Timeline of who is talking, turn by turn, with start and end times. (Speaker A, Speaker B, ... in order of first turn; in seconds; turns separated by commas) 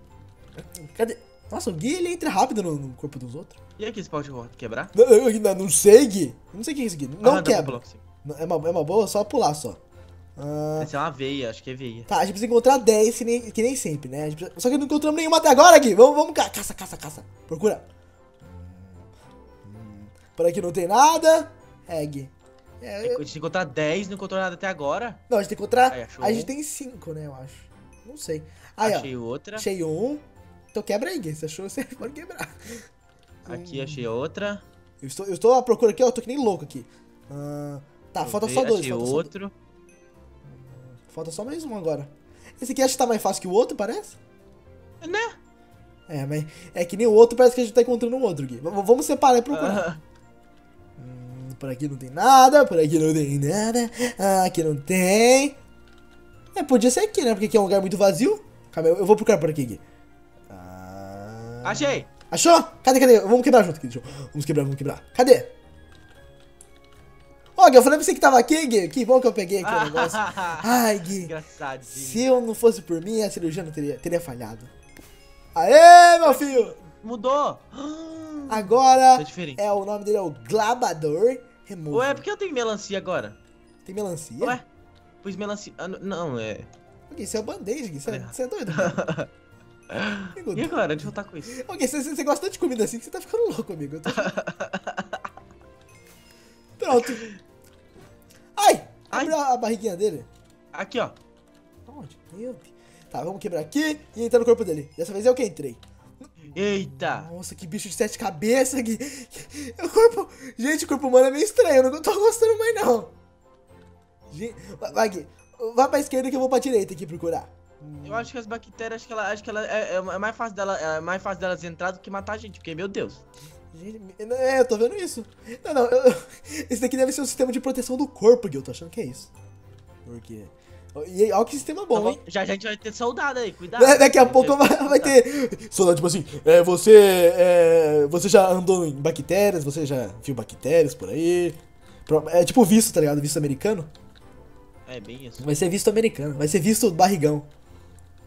Speaker A: 0.8-3.6, Speaker B: 3.8-4.9, Speaker A: 4.9-9.8, Speaker B: 7.2-8.0, Speaker A: 10.4-10.9, Speaker B: 10.8-12.1, Speaker A: 12.1-17.9, Speaker A: 18.4-19.1, Speaker A: 19.6-23.2, Speaker B: 23.0-25.2, Speaker A: 25.3-30.2, Speaker B: 25.9-26.5, Speaker B: 28.8-29.7, Speaker A: 30.7-32.9, Speaker B: 33.5-34.6, Speaker A: 33.5-34.1, Speaker A: 35.0-39.3, Speaker B: 38.2-39.5, Speaker A: 40.5-44.2, Speaker B: 45.0-45.4, Speaker A: 46.1-49.9, Speaker B: 49.5-50.0, Speaker A: 51.0-55.6, Speaker A: 56.5-59.8, Speaker A: 60.5-65.5, Speaker B: 61.6-62.1, Speaker A: 67.6-71.3, Speaker B: 69.6-72.2, Speaker A: 71.9-74.7, Speaker A: 75.5-76.8, Speaker B: 76.2-79.6, Speaker A: 78.5-82.2, Speaker B: 81.9-83.4, Speaker A: 83.9-84.6, Speaker B: 85.2-86.7, Speaker A: 87.1-89.0, Speaker B: 88.1-89.3, Speaker B: 89.9-91.6, Speaker A: 90.4-90.8, Speaker A: 91.5-94.3, Speaker B: 94.1-95.3, Speaker A: 96.8-97.2, Speaker B: 96.9-97.4, Speaker A: 98.6-100.3, Speaker B: 100.7-101.2, Speaker A: 101.9-113.1, Speaker B: 106.5-107.3, Speaker A: 114.3-118.3, Speaker B: 118.0-123.2, Speaker A: 123.7-129.3, Speaker A: 130.1-132.2, Speaker B: 131.9-135.2, Speaker A: 133.8-143.9, Speaker B: 144.9-145.5, Speaker A: 145.4-147.5